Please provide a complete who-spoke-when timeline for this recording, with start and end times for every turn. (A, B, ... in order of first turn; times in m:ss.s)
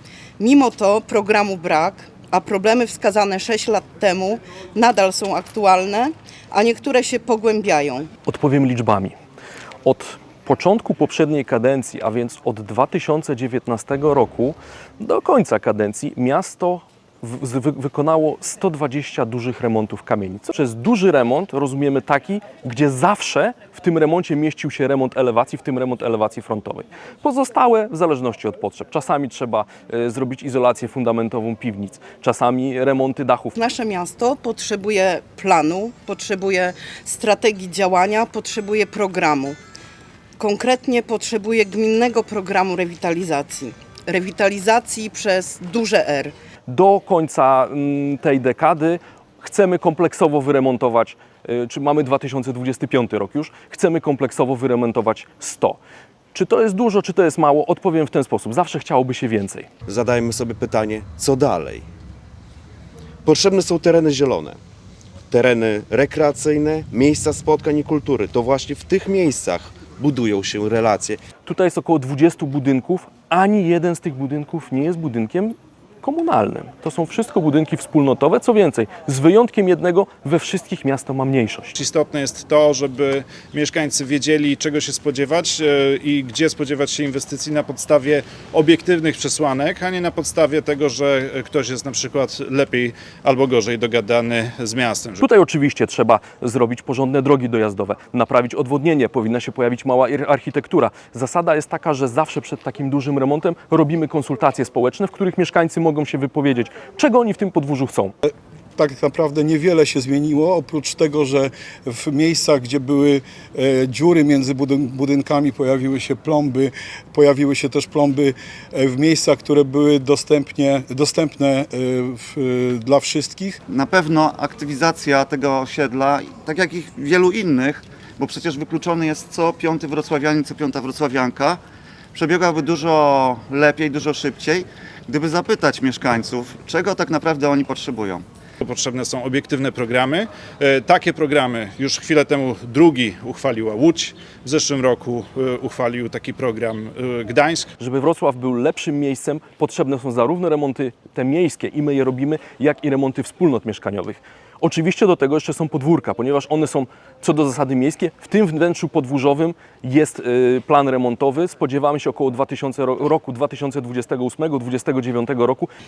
0:00.4-0:08.1 A
0:08.2-0:09.1 B
0:09.8-0:33.6 B
0:33.6-0:39.6 A
0:40.4-0:46.3 A
0:46.7-0:55.8 B
0:56.3-0:59.7 B
0:59.9-1:01.8 C
1:03.2-1:04.6 C
1:05.3-1:11.2 C
1:11.4-1:21.7 B
1:21.8-1:35.2 D
1:35.2-1:48.1 B
1:48.2-2:03.6 E
2:03.7-2:11.6 F
2:12.1-2:18.2 F
2:18.6-2:27.7 D
2:27.8-2:45.7 B